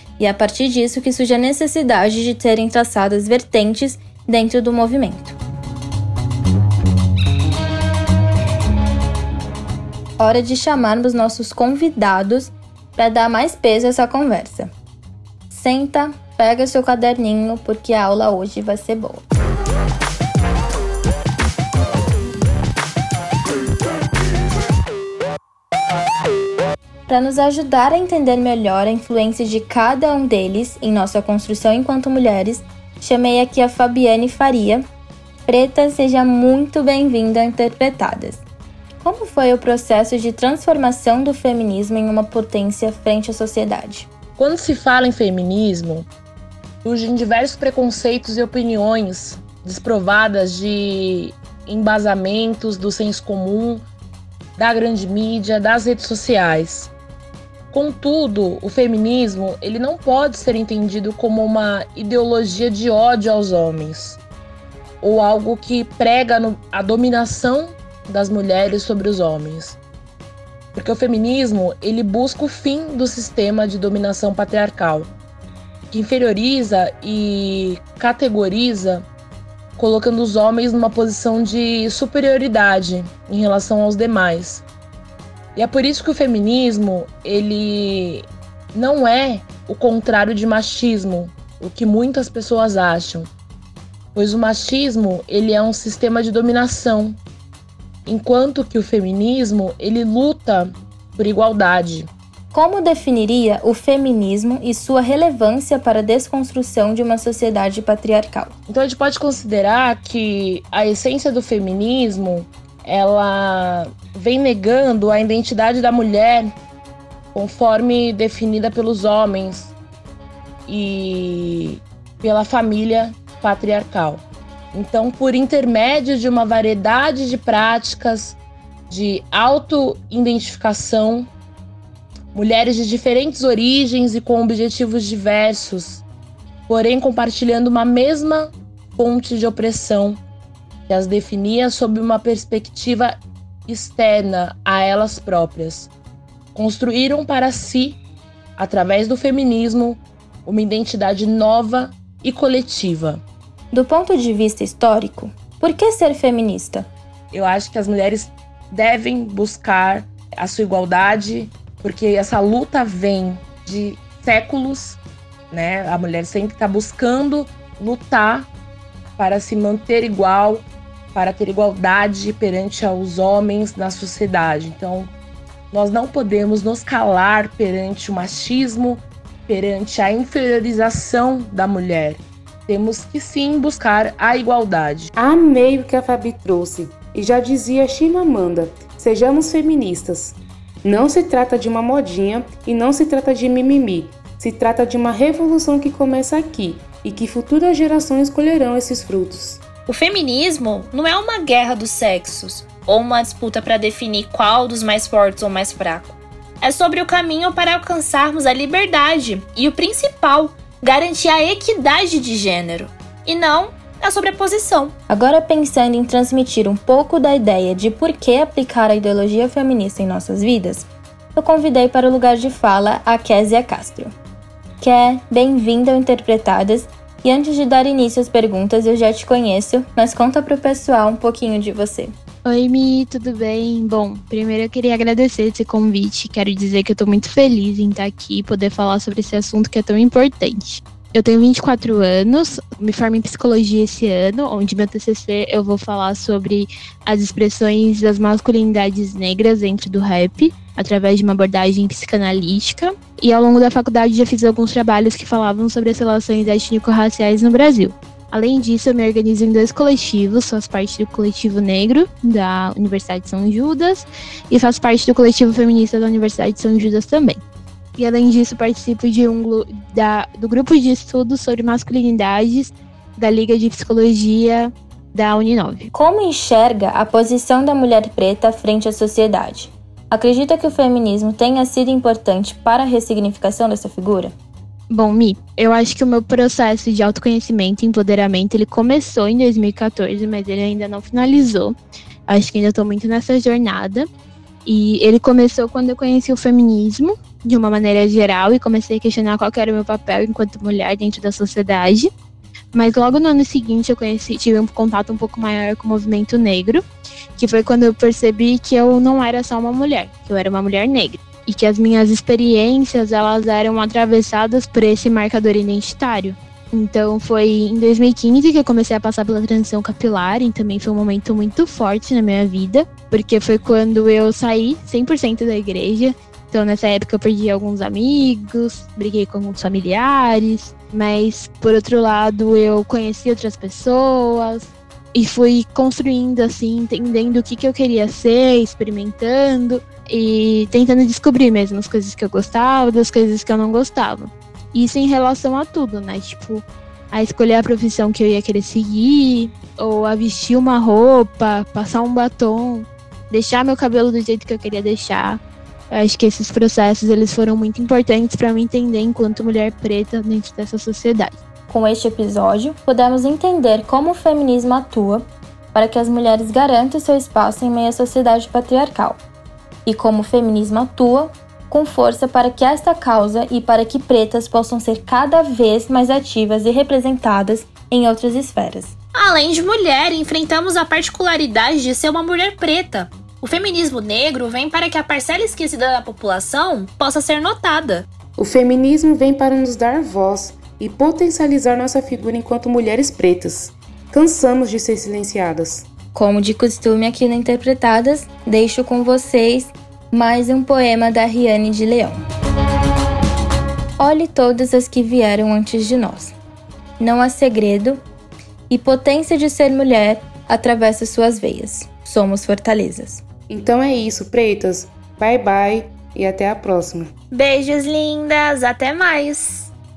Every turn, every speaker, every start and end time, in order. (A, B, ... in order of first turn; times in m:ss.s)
0:00.2-0:05.4 A
0:10.2-0:14.7 A
0:15.5-0:19.2 A
0:27.1-0:34.8 A
0:35.4-0:38.4 A
0:39.0-0:44.1 A
0:44.4-0:46.1 B
0:46.8-0:53.8 B
0:54.6-0:56.9 B
0:57.7-1:04.2 B
1:05.0-1:09.8 B
1:10.7-1:15.1 B
1:15.9-1:19.1 B
1:19.8-1:24.6 B
1:25.5-1:33.3 B
1:34.1-1:37.2 B
1:38.0-1:42.1 B
1:42.5-1:48.5 A
1:48.7-1:56.6 B
1:57.3-1:59.7 B
2:00.7-2:08.4 B
2:08.9-2:11.3 B
2:12.3-2:16.0 B
2:16.7-2:20.2 B
2:20.9-2:25.9 B
2:26.5-2:28.0 B
2:28.6-2:33.2 B
2:33.7-2:36.9 A
2:37.3-2:45.0 B
2:45.5-2:48.5 B
2:49.2-2:55.1 B
2:55.7-3:05.1 B
3:05.2-3:19.6 C
3:19.9-3:34.9 D
3:35.1-3:44.1 A
3:44.8-3:52.1 A
3:52.4-4:27.4 E
4:28.0-4:35.9 E
4:35.9-4:44.3 A
4:44.9-4:51.8 E
4:52.3-4:54.1 E
4:54.6-5:02.1 E
5:02.7-6:01.4 E
6:01.7-6:09.2 A
6:09.8-6:18.9 A
6:19.1-6:28.0 D
6:28.4-6:35.9 C
6:36.1-6:42.2 A
6:44.0-6:46.4 A
6:47.0-6:48.0 A
6:48.7-6:53.2 A
6:53.5-6:57.1 C
6:57.3-6:59.7 D